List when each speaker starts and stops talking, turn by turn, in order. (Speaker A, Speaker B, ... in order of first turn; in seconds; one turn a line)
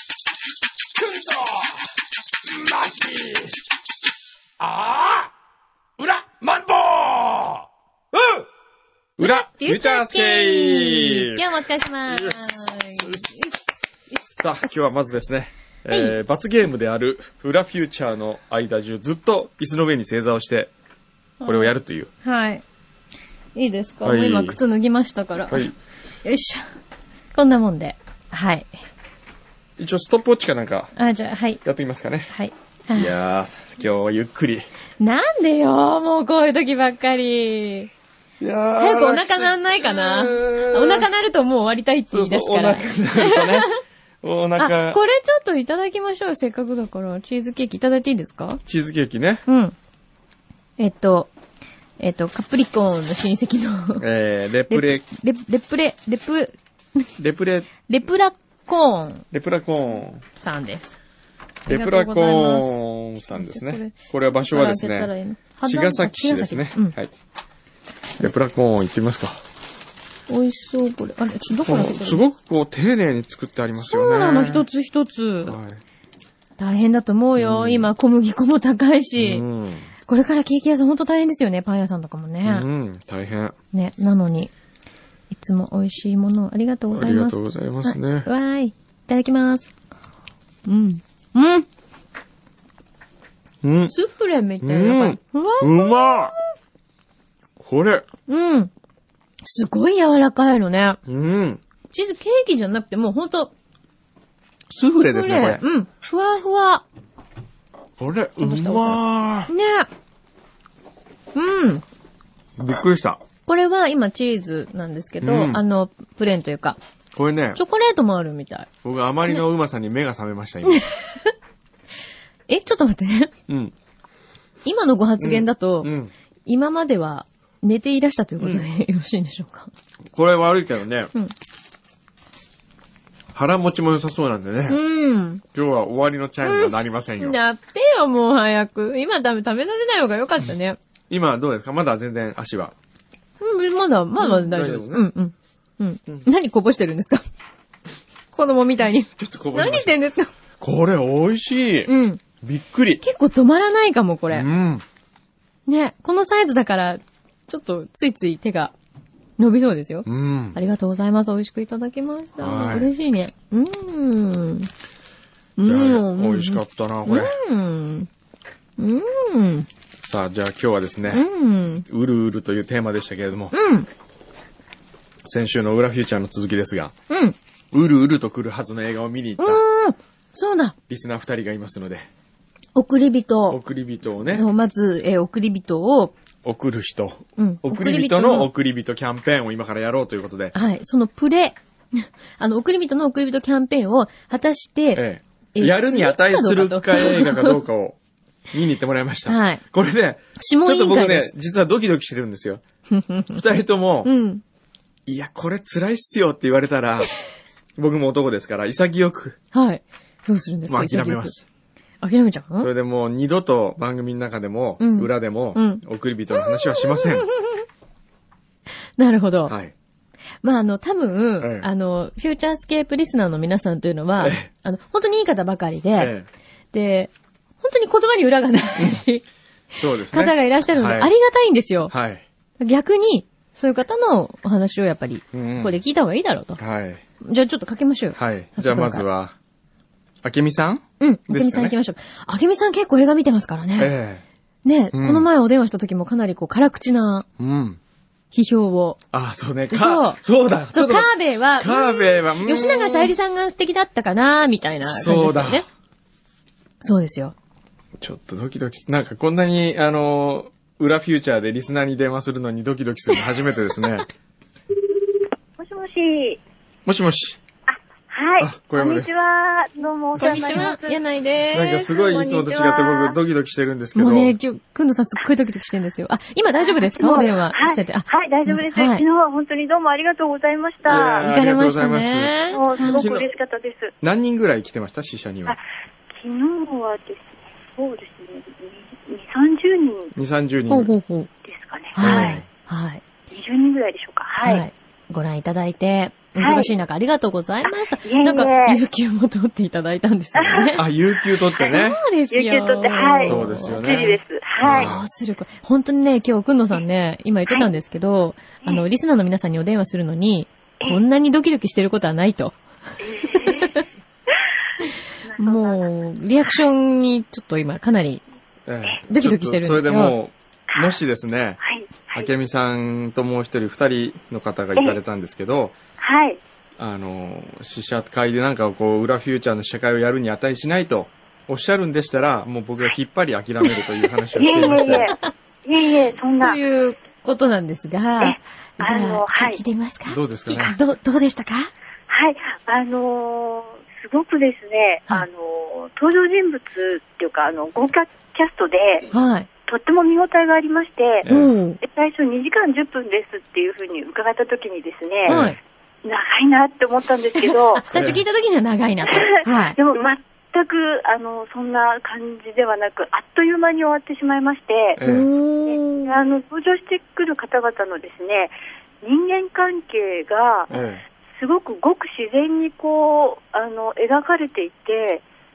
Speaker A: 1.1-1.4
Speaker A: 2.5-3.5
Speaker A: 4.6-5.3
Speaker A: 6.0-8.5
Speaker A: 9.2-11.4
Speaker B: 9.2-13.6
Speaker A: 12.1-13.2
Speaker B: 14.1-14.7
Speaker A: 14.4-20.7
Speaker B: 15.9-16.2
Speaker B: 21.4-22.6
Speaker A: 21.4-22.1
Speaker B: 23.6-25.7
Speaker A: 24.0-24.6
Speaker B: 26.2-26.6
Speaker B: 27.3-28.7
Speaker A: 29.8-30.9
Speaker B: 31.0-31.6
Speaker A: 31.6-32.3
Speaker B: 32.3-33.1
Speaker A: 32.9-34.7
Speaker B: 35.0-37.9
Speaker A: 38.4-41.1
Speaker B: 38.8-43.8
Speaker A: 42.1-43.7
Speaker A: 44.2-45.0
Speaker B: 44.6-48.6
Speaker A: 48.7-49.4
Speaker B: 49.5-49.7
Speaker B: 50.8-51.3
Speaker B: 52.0-54.0
Speaker A: 54.0-55.0
Speaker B: 54.7-57.0
Speaker A: 57.2-57.7
Speaker B: 57.9-59.2
Speaker A: 59.3-60.2
Speaker B: 60.4-61.0
Speaker A: 61.7-65.1
Speaker B: 61.7-62.8
Speaker B: 63.3-63.9
Speaker B: 64.5-66.9
Speaker A: 65.6-67.1
Speaker A: 68.2-69.4
Speaker B: 70.3-72.2
Speaker A: 71.6-74.6
Speaker B: 73.9-75.6
Speaker A: 75.5-75.8
Speaker B: 76.6-79.4
Speaker A: 77.4-77.9
Speaker A: 79.2-79.9
Speaker B: 80.1-82.7
Speaker A: 82.4-83.5
Speaker B: 83.7-84.5
Speaker B: 85.3-89.7
Speaker A: 86.9-88.3
Speaker B: 90.6-91.7
Speaker A: 93.6-93.9
Speaker B: 93.9-96.3
Speaker A: 94.6-96.3
Speaker A: 97.6-98.0
Speaker B: 98.3-98.7
Speaker B: 99.4-101.0
Speaker A: 101.1-101.6
Speaker B: 101.9-103.5
Speaker A: 104.7-105.6
Speaker B: 104.9-106.8
Speaker A: 108.0-109.5
Speaker B: 108.4-109.9
Speaker B: 111.3-111.8
Speaker A: 112.6-113.2
Speaker B: 113.5-116.8
Speaker A: 115.2-115.6
Speaker A: 117.1-117.6
Speaker B: 117.5-118.7
Speaker A: 118.8-120.9
Speaker B: 120.7-121.3
Speaker B: 122.5-123.3
Speaker A: 123.5-123.7
Speaker B: 124.6-125.9
Speaker A: 125.2-126.1
Speaker B: 126.5-129.7
Speaker A: 128.4-128.7
Speaker A: 130.1-131.1
Speaker A: 133.3-134.8
Speaker B: 134.7-135.4
Speaker A: 135.5-137.4
Speaker B: 136.4-140.8
Speaker A: 141.1-142.7
Speaker B: 143.4-147.2
Speaker A: 144.2-145.1
Speaker B: 148.3-150.3
Speaker A: 149.2-149.9
Speaker A: 150.6-151.9
Speaker B: 151.8-152.2
Speaker A: 152.4-153.0
Speaker B: 153.0-154.5
Speaker A: 154.3-154.8
Speaker B: 155.7-158.7
Speaker B: 159.4-164.7
Speaker A: 160.0-160.6
Speaker A: 162.4-162.9
Speaker B: 165.6-168.1
Speaker A: 165.7-167.3
Speaker B: 168.8-169.7
Speaker A: 170.0-171.2
Speaker B: 171.1-171.8
Speaker A: 171.9-173.5
Speaker B: 173.5-173.9
Speaker A: 175.2-176.9
Speaker B: 177.1-177.3
Speaker A: 177.7-179.6
Speaker B: 179.4-180.8
Speaker A: 180.9-182.1
Speaker B: 182.8-183.6
Speaker A: 183.5-184.4
Speaker B: 184.3-186.1
Speaker A: 186.4-190.5
Speaker B: 187.4-188.5
Speaker B: 190.5-195.0
Speaker A: 194.9-198.0
Speaker B: 195.5-197.6
Speaker A: 198.5-202.6
Speaker B: 199.3-199.6
Speaker B: 200.4-201.3
Speaker B: 202.9-203.4
Speaker A: 203.3-204.1
Speaker B: 204.0-204.4
Speaker A: 205.1-207.1
Speaker A: 207.8-209.4
Speaker B: 209.5-211.3
Speaker A: 210.7-211.4
Speaker B: 212.0-212.7
Speaker A: 212.6-217.3
Speaker B: 214.8-215.8
Speaker B: 216.3-217.7
Speaker B: 219.0-219.5
Speaker A: 219.5-219.7
Speaker B: 220.4-226.1
Speaker A: 221.4-221.7
Speaker A: 224.2-224.5
Speaker A: 226.0-226.3
Speaker B: 226.7-231.9
Speaker A: 228.8-229.0
Speaker A: 229.8-231.1
Speaker A: 231.9-232.2
Speaker B: 232.6-236.6
Speaker A: 235.3-235.8
Speaker A: 236.6-237.0
Speaker B: 237.2-239.0
Speaker A: 238.2-239.3
Speaker A: 240.2-241.8
Speaker B: 241.0-243.9
Speaker A: 243.8-244.2
Speaker B: 244.7-247.2
Speaker A: 244.9-245.3
Speaker A: 247.4-247.8
Speaker B: 248.3-249.0
Speaker A: 249.1-253.2
Speaker B: 249.7-255.6
Speaker A: 254.8-255.7
Speaker B: 256.8-257.3
Speaker A: 258.0-264.1
Speaker C: 265.6-266.4
Speaker A: 266.9-267.4
Speaker C: 267.7-271.0
Speaker A: 268.4-269.2
Speaker A: 270.1-270.7
Speaker B: 270.2-272.3
Speaker A: 271.5-274.4
Speaker C: 271.8-273.1
Speaker B: 273.9-279.1
Speaker C: 276.6-281.3
Speaker A: 280.9-283.3
Speaker B: 280.9-283.1
Speaker C: 282.5-283.9
Speaker A: 284.0-285.6
Speaker C: 286.1-290.1
Speaker A: 290.1-290.9
Speaker B: 290.7-291.3
Speaker C: 291.4-292.4
Speaker B: 291.9-293.0
Speaker A: 292.0-292.4
Speaker C: 293.3-294.6
Speaker B: 294.4-300.8
Speaker C: 296.4-296.7
Speaker C: 298.1-298.8
Speaker C: 300.4-300.7
Speaker A: 300.7-302.0
Speaker C: 301.5-304.9
Speaker B: 301.6-303.8
Speaker A: 303.2-305.1
Speaker B: 304.6-312.6
Speaker C: 313.0-314.4
Speaker B: 313.2-313.9
Speaker C: 315.3-315.8
Speaker B: 315.4-318.2
Speaker A: 318.7-325.8
Speaker B: 319.1-320.1
Speaker C: 320.7-320.9
Speaker C: 321.6-322.3
Speaker C: 326.0-326.4
Speaker A: 326.8-335.1
Speaker C: 334.3-336.6
Speaker B: 334.6-335.2
Speaker B: 336.4-341.7
Speaker C: 338.2-339.6
Speaker A: 340.1-340.8
Speaker C: 342.1-349.1
Speaker B: 349.1-349.5
Speaker C: 349.6-351.3
Speaker A: 351.2-351.5
Speaker B: 351.2-351.8
Speaker C: 351.8-355.4
Speaker B: 355.2-355.6
Speaker A: 355.3-355.6
Speaker C: 356.0-357.8
Speaker B: 357.4-359.8
Speaker A: 357.9-358.2
Speaker C: 359.1-365.0
Speaker A: 364.9-365.3
Speaker B: 365.0-366.1
Speaker C: 365.7-370.7
Speaker A: 370.7-371.0
Speaker C: 371.4-375.2